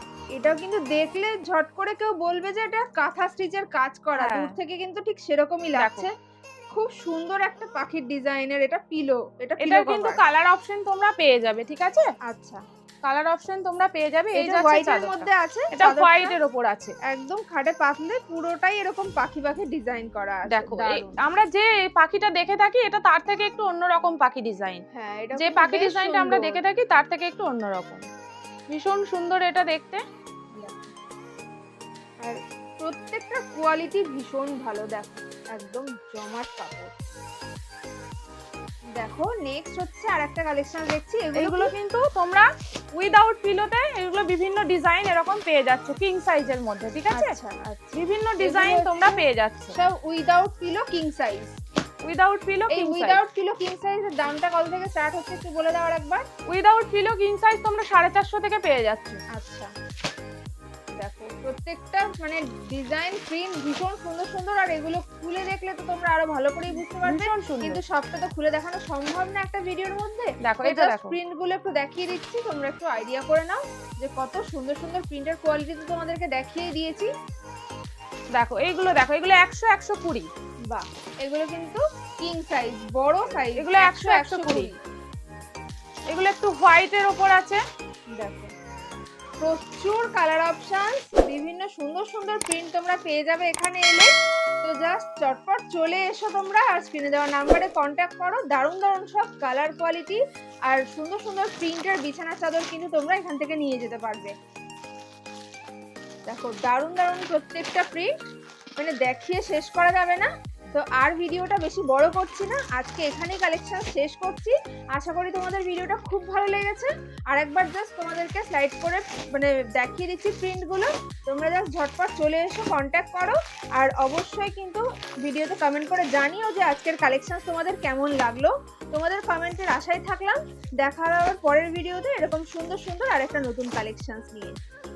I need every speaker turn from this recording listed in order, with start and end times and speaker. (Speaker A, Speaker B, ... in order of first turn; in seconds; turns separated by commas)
Speaker A: 0.4-6.1, Speaker B: 4.2-4.5, Speaker B: 5.8-6.1, Speaker A: 6.7-10.2, Speaker B: 9.6-12.1, Speaker A: 12.3-12.6, Speaker B: 13.1-16.9, Speaker A: 14.3-16.4, Speaker A: 17.1-21.2, Speaker B: 20.5-24.8, Speaker A: 24.9-26.6, Speaker B: 25.4-28.0, Speaker B: 28.7-30.0, Speaker A: 30.5-30.9, Speaker A: 32.2-36.9, Speaker A: 39.0-41.7, Speaker B: 41.4-47.3, Speaker A: 47.1-49.2, Speaker B: 47.9-49.7, Speaker A: 49.7-51.6, Speaker B: 52.0-53.2, Speaker A: 52.7-56.2, Speaker B: 56.5-59.2, Speaker A: 59.3-59.7, Speaker A: 61.0-77.1, Speaker B: 66.8-67.8, Speaker B: 70.4-71.2, Speaker B: 78.3-80.3, Speaker A: 80.7-84.8, Speaker B: 83.6-84.7, Speaker B: 86.1-87.6, Speaker A: 88.2-88.5, Speaker A: 89.4-94.1, Speaker A: 94.6-104.3, Speaker A: 106.3-108.2, Speaker A: 108.8-134.6